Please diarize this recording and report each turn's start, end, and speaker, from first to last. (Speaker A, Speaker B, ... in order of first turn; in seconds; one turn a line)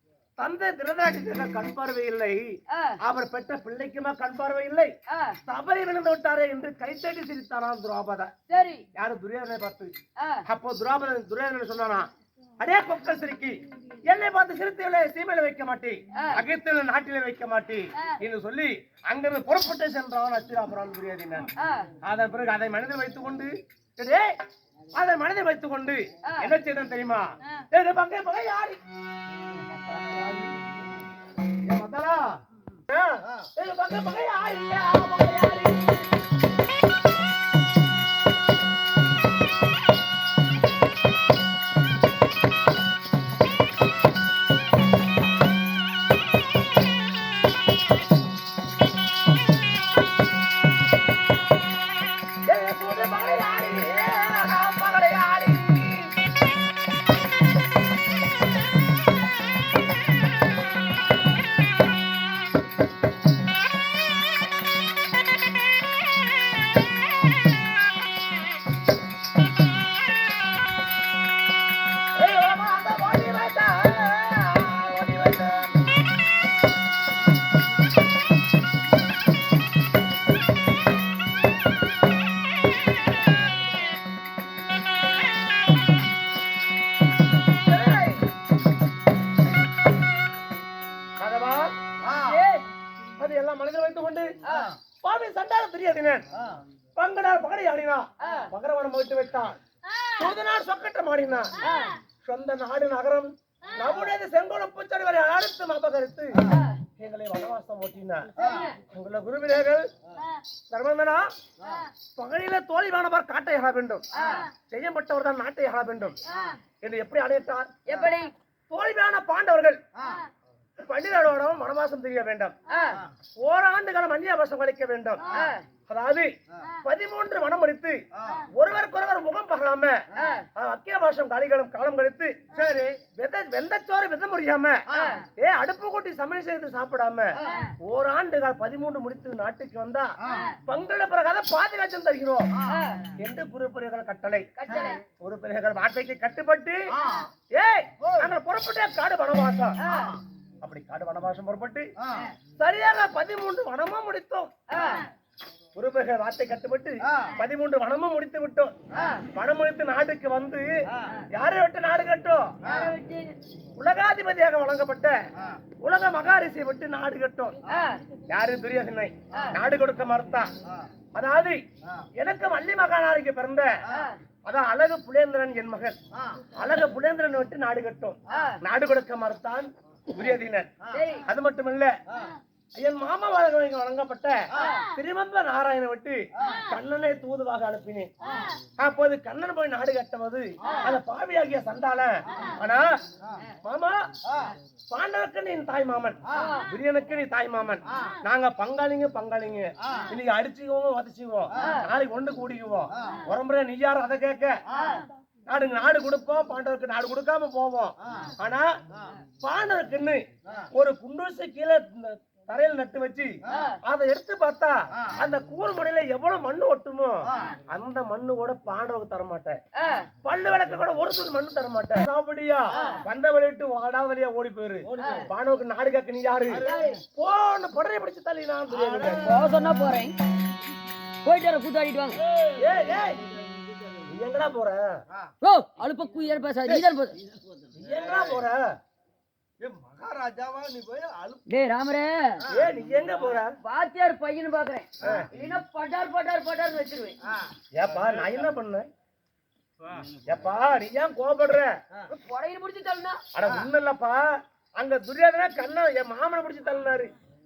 Speaker A: 0.4-4.9
Speaker B: 2.7-3.0
Speaker B: 5.1-5.4
Speaker A: 5.4-8.3
Speaker B: 8.5-8.8
Speaker A: 8.9-9.9
Speaker B: 10.2-10.4
Speaker A: 10.5-12.1
Speaker A: 12.6-21.5
Speaker B: 16.1-16.4
Speaker B: 21.6-21.9
Speaker A: 22.0-24.4
Speaker A: 24.9-28.8
Speaker B: 26.2-26.5
Speaker C: 29.8-30.3
Speaker A: 29.9-30.5
Speaker A: 31.7-32.4
Speaker A: 32.9-36.0
Speaker C: 33.2-33.5
Speaker A: 52.5-56.1
Speaker A: 72.2-75.8
Speaker B: 87.7-88.2
Speaker A: 91.2-91.7
Speaker C: 92.0-92.4
Speaker B: 92.1-92.6
Speaker A: 93.2-94.3
Speaker B: 94.4-94.7
Speaker C: 94.5-94.7
Speaker A: 95.0-96.2
Speaker C: 96.3-96.6
Speaker A: 97.0-99.5
Speaker B: 98.2-98.5
Speaker B: 99.9-100.2
Speaker A: 100.1-101.6
Speaker B: 101.6-102.0
Speaker A: 102.2-106.5
Speaker B: 103.7-104.0
Speaker B: 106.5-106.8
Speaker A: 107.0-109.9
Speaker B: 108.3-108.8
Speaker C: 108.4-108.7
Speaker A: 110.7-111.3
Speaker C: 111.6-111.8
Speaker A: 112.2-114.1
Speaker B: 114.1-114.5
Speaker C: 114.2-114.4
Speaker A: 114.7-116.2
Speaker B: 116.3-116.6
Speaker A: 116.8-117.8
Speaker B: 117.8-118.3
Speaker A: 118.7-119.8
Speaker C: 120.0-120.2
Speaker B: 120.0-120.3
Speaker A: 120.8-122.5
Speaker B: 122.7-123.0
Speaker A: 123.4-125.3
Speaker B: 125.2-125.6
Speaker A: 125.9-130.0
Speaker C: 128.1-128.4
Speaker B: 130.1-130.5
Speaker A: 130.6-134.8
Speaker C: 134.9-135.2
Speaker B: 134.9-135.2
Speaker A: 135.3-142.5
Speaker B: 137.4-137.7
Speaker C: 140.2-140.5
Speaker B: 140.2-140.6
Speaker B: 142.7-143.1
Speaker A: 143.2-146.9
Speaker B: 144.6-145.0
Speaker C: 146.9-147.3
Speaker A: 147.5-149.8
Speaker C: 148.0-148.3
Speaker B: 149.8-150.2
Speaker C: 149.9-150.2
Speaker A: 150.6-151.9
Speaker C: 152.0-152.3
Speaker A: 152.6-154.5
Speaker B: 154.7-155.1
Speaker A: 155.7-158.7
Speaker C: 157.0-157.3
Speaker B: 158.9-159.2
Speaker A: 159.3-160.7
Speaker A: 161.3-162.6
Speaker C: 162.6-162.9
Speaker B: 162.6-163.3
Speaker A: 163.8-165.2
Speaker A: 165.8-167.6
Speaker B: 167.7-168.0
Speaker A: 168.3-170.5
Speaker A: 171.1-171.6
Speaker A: 172.2-173.7
Speaker B: 173.9-174.2
Speaker A: 174.4-175.9
Speaker C: 176.1-176.5
Speaker A: 176.5-181.9
Speaker B: 178.3-178.6
Speaker C: 180.8-181.1
Speaker B: 180.9-181.3
Speaker C: 182.1-182.3
Speaker A: 182.8-188.1
Speaker B: 184.5-184.9
Speaker A: 188.8-193.0
Speaker B: 190.6-190.9
Speaker A: 193.6-194.1
Speaker C: 194.2-194.5
Speaker A: 194.9-204.6
Speaker B: 196.3-196.7
Speaker C: 199.8-200.1
Speaker B: 201.6-201.9
Speaker C: 204.7-205.0
Speaker B: 204.8-205.0
Speaker A: 205.5-208.7
Speaker C: 208.1-208.3
Speaker A: 209.4-210.2
Speaker A: 210.7-219.6
Speaker B: 213.5-213.8
Speaker C: 217.3-217.5
Speaker B: 219.8-220.1
Speaker A: 220.2-229.3
Speaker C: 222.7-223.0
Speaker C: 224.8-225.3
Speaker B: 225.0-225.2
Speaker C: 226.5-227.0
Speaker B: 226.6-227.0
Speaker C: 228.7-229.8
Speaker B: 229.2-230.1
Speaker B: 231.2-232.2
Speaker C: 232.3-232.9
Speaker A: 232.6-233.2
Speaker A: 234.1-234.9
Speaker B: 235.4-237.2
Speaker A: 237.7-238.7
Speaker C: 237.8-238.4
Speaker C: 239.6-241.4
Speaker B: 241.5-242.4
Speaker C: 242.4-242.8
Speaker A: 242.5-243.5
Speaker B: 243.6-247.2
Speaker C: 247.3-248.4
Speaker A: 247.7-248.9
Speaker C: 249.8-250.1
Speaker A: 250.2-251.7
Speaker B: 252.1-253.2
Speaker A: 253.3-254.3
Speaker A: 254.8-257.1